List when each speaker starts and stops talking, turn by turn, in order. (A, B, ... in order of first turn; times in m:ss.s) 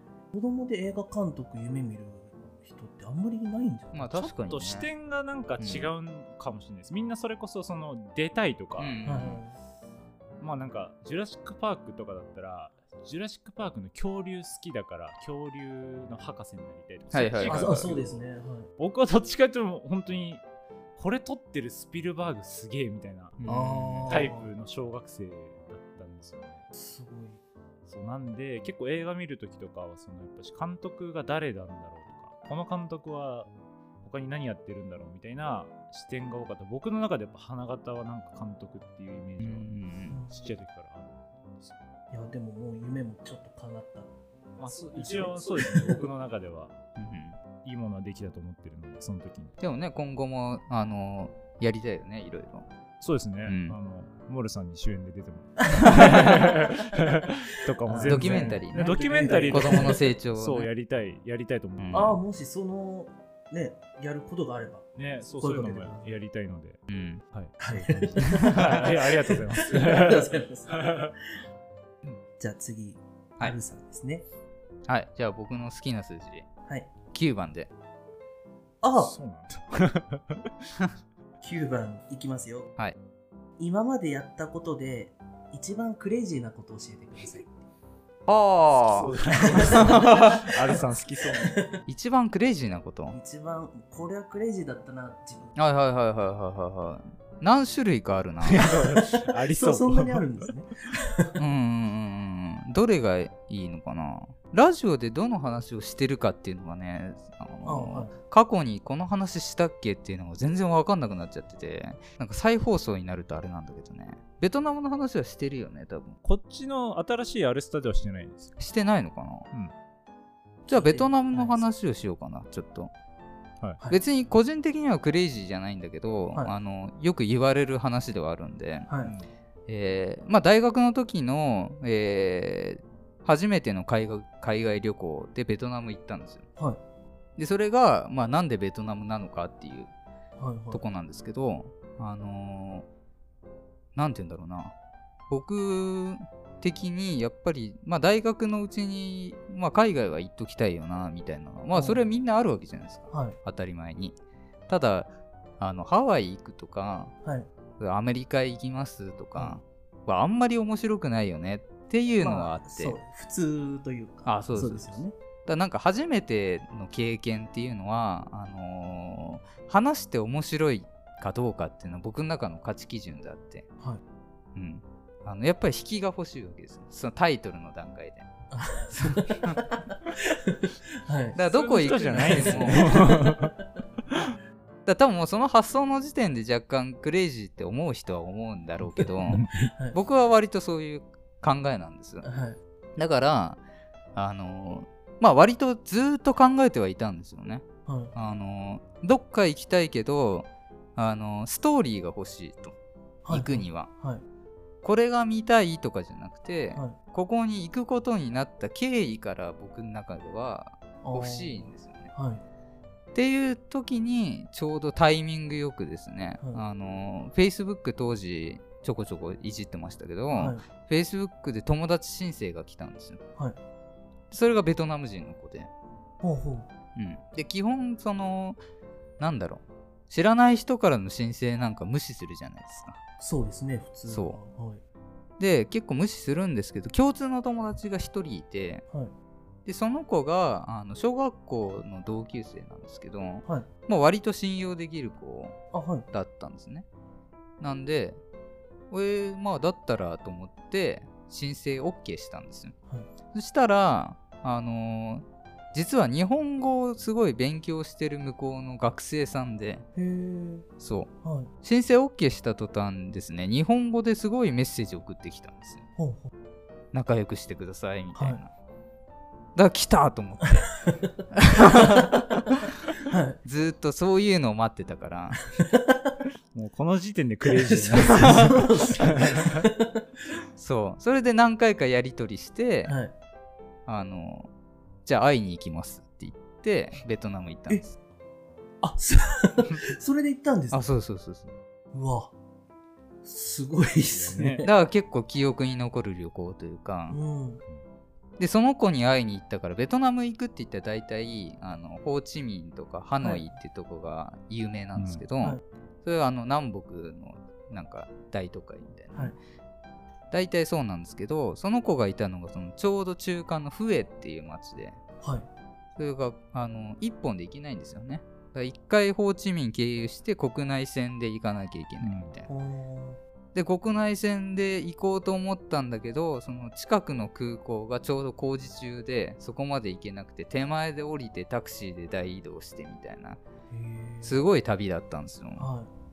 0:00.3-0:04.1 A
0:03.9-0:04.9 B
0:04.1-0:09.0 C
0:05.6-0:05.9 B
0:08.8-0:09.4 B
0:09.0-0:09.6 A
0:10.4-0:18.2 C
0:17.1-0:17.9 B
0:17.5-0:18.7 A
0:18.8-0:20.4 C
0:21.0-0:26.6 C
0:23.4-0:24.2 B
0:23.4-0:24.5 A
0:26.7-0:27.4 A
0:27.8-0:33.5 C
0:34.0-0:41.9 C
0:39.4-0:40.2 B
0:40.1-0:40.4 A
0:42.1-0:44.1 A
0:44.6-0:46.8 C
0:44.7-0:46.1 A
0:47.0-0:47.4 B
0:47.6-0:49.6 C
0:49.6-0:52.7 B
0:53.0-1:02.1 C
0:53.4-0:53.7 B
0:55.7-0:56.5 A
0:55.8-0:56.5 B
0:57.8-1:00.0 A
0:58.0-1:00.7 B
1:01.8-1:02.1 B
1:01.9-1:06.1 A
1:04.9-1:11.1 C
1:06.9-1:07.2 B
1:07.6-1:11.1 A
1:12.4-1:14.2 A
1:14.9-1:16.5 B
1:17.1-1:17.7 B
1:18.8-1:19.1 A
1:19.0-1:20.7 C
1:21.4-1:22.7 A
1:23.6-1:27.6 A
1:28.3-1:30.5 B
1:28.7-1:31.6 C
1:29.1-1:30.8 A
1:31.4-1:31.7 A
1:31.9-1:33.2 B
1:33.1-1:35.5 A
1:35.6-1:38.7 B
1:38.4-1:40.4 C
1:38.9-1:41.4 A
1:41.4-1:56.2 B
1:47.6-1:48.1 A
1:56.2-1:58.6 C
1:58.6-1:59.5 B
2:00.7-2:02.9 B
2:00.7-2:01.6 A
2:03.9-2:08.9 B
2:08.9-2:09.1 A
2:09.0-2:09.3 C
2:09.7-2:16.4 B
2:17.4-2:19.9 B
2:20.4-2:20.8 A
2:20.7-2:22.8 B
2:23.9-2:24.7 B
2:25.3-2:34.2 B
2:31.7-2:32.0 A
2:33.1-2:33.4 A
2:34.7-2:37.1 B
2:37.8-2:43.0 B
2:42.2-2:45.1 A
2:44.2-2:53.6 B
2:54.5-2:58.3 B
2:58.5-3:01.4 A
2:58.9-2:59.6 B
3:01.3-3:03.1 B
3:01.4-3:03.5 C
3:02.1-3:03.5 A
3:04.8-3:12.2 B
3:08.8-3:10.0 A
3:12.2-3:12.6 A
3:13.0-3:13.6 B
3:14.1-3:22.7 B
3:17.9-3:18.1 A
3:23.2-3:24.2 A
3:23.3-3:23.9 B
3:24.8-3:32.1 B
3:31.0-3:32.4 A
3:33.1-3:43.2 B
3:40.3-3:40.6 A
3:44.3-3:45.7 B
3:46.2-3:46.7 A
3:47.0-3:48.6 B
3:49.2-3:53.0 B
3:53.2-3:54.8 A
3:54.1-3:54.4 B
3:55.4-3:58.8 B
3:59.6-4:05.6 B
4:05.7-4:06.0 A
4:06.1-4:06.8 B
4:07.6-4:08.2 B
4:08.9-4:12.7 B
4:13.3-4:19.8 B
4:20.0-4:20.6 A
4:20.8-4:25.8 B
4:21.2-4:21.5 A
4:26.0-4:26.3 A
4:26.9-4:28.5 B
4:28.2-4:28.4 A
4:29.5-4:30.8 B
4:31.3-4:32.6 B
4:31.7-4:32.1 A
4:33.0-4:33.4 A
4:33.4-4:35.4 B
4:35.6-4:36.1 A
4:36.5-4:39.7 C
4:37.4-4:40.0 A
4:38.0-4:38.6 B
4:40.6-4:42.9 B
4:42.8-4:43.1 A
4:43.9-4:44.5 B
4:45.0-4:47.9 B
4:48.8-4:50.8 A
4:50.7-4:51.5 B
4:51.9-4:52.3 A
4:53.2-4:54.7 A
4:54.1-4:54.6 C
4:54.6-4:57.2 B
4:57.1-4:57.6 A
4:58.4-5:09.3 B
5:05.0-5:05.2 C
5:10.3-5:15.0 B
5:16.0-5:22.5 B
5:22.0-5:22.4 C
5:22.5-5:23.2 A
5:23.5-5:33.4 B
5:33.7-5:34.4 A
5:34.2-5:35.7 B
5:35.6-5:35.9 A